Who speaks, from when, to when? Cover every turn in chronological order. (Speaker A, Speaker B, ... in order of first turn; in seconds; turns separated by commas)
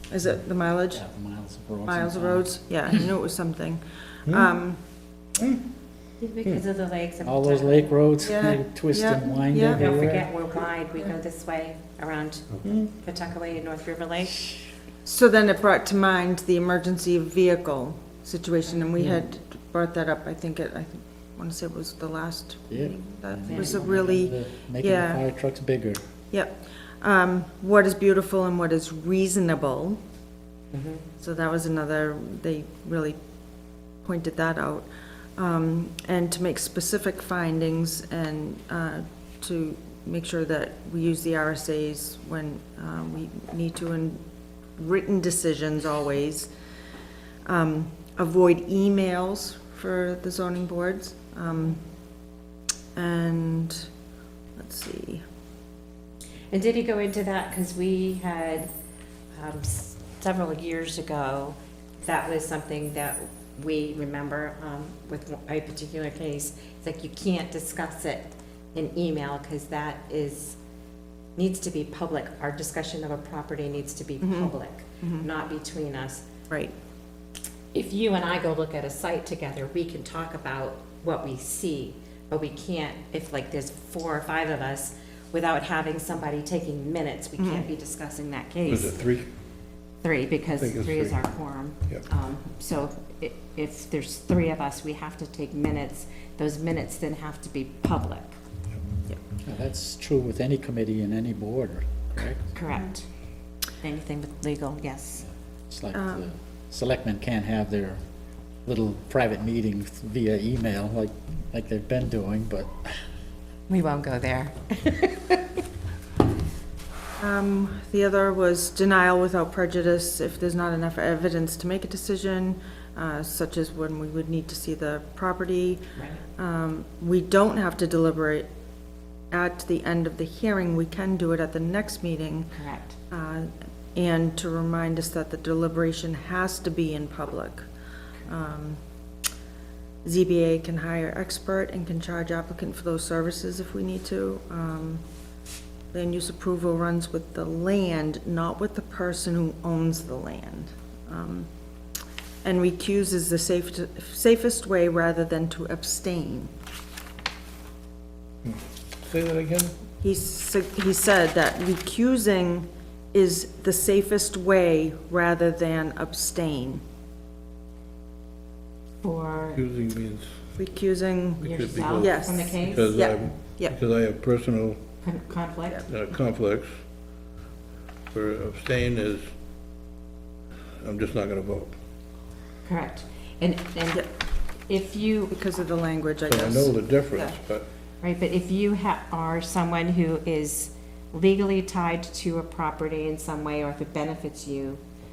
Speaker A: 0.1-1.0, Speaker B: 0.9-2.5, Speaker A: 1.9-4.8, Speaker C: 4.3-4.5, Speaker C: 5.4-5.6, Speaker D: 6.2-8.3, Speaker B: 7.2-10.3, Speaker A: 8.2-10.0, Speaker D: 9.7-14.5, Speaker C: 12.6-12.9, Speaker A: 15.1-25.2, Speaker D: 19.0-19.2, Speaker B: 22.7-26.0, Speaker D: 23.5-23.8, Speaker A: 26.3-30.0, Speaker D: 30.7-31.0, Speaker A: 31.2-33.2, Speaker A: 34.0-44.2, Speaker A: 44.8-46.5, Speaker A: 47.5-51.8, Speaker A: 53.0-53.9, Speaker A: 54.6-55.2, Speaker D: 56.5-58.7, Speaker D: 59.4-70.6, Speaker D: 71.4-76.2, Speaker A: 74.2-75.3, Speaker D: 77.7-89.0, Speaker A: 87.4-87.7, Speaker C: 88.7-89.3, Speaker D: 90.0-98.3, Speaker C: 90.5-91.2, Speaker B: 99.5-102.5, Speaker D: 102.5-103.1, Speaker D: 103.8-105.3, Speaker B: 105.7-108.0, Speaker A: 105.9-106.3, Speaker B: 108.7-113.0, Speaker D: 113.7-115.4, Speaker A: 117.2-125.8, Speaker D: 126.0-126.2, Speaker A: 126.4-128.5, Speaker A: 129.3-132.5, Speaker D: 132.5-133.0, Speaker A: 133.1-137.7, Speaker A: 138.3-138.8, Speaker A: 140.0-145.0, Speaker A: 145.9-151.5, Speaker A: 152.4-156.5, Speaker C: 158.4-159.7, Speaker A: 160.0-166.8, Speaker D: 169.0-169.6, Speaker C: 169.5-170.5, Speaker A: 170.6-173.8, Speaker C: 171.4-174.8, Speaker D: 171.4-172.9, Speaker D: 175.0-175.8, Speaker C: 175.8-176.8, Speaker C: 178.1-179.3, Speaker C: 180.8-181.8, Speaker D: 182.6-184.1, Speaker D: 184.7-185.4, Speaker A: 185.3-187.4, Speaker C: 186.3-187.7, Speaker D: 188.0-194.8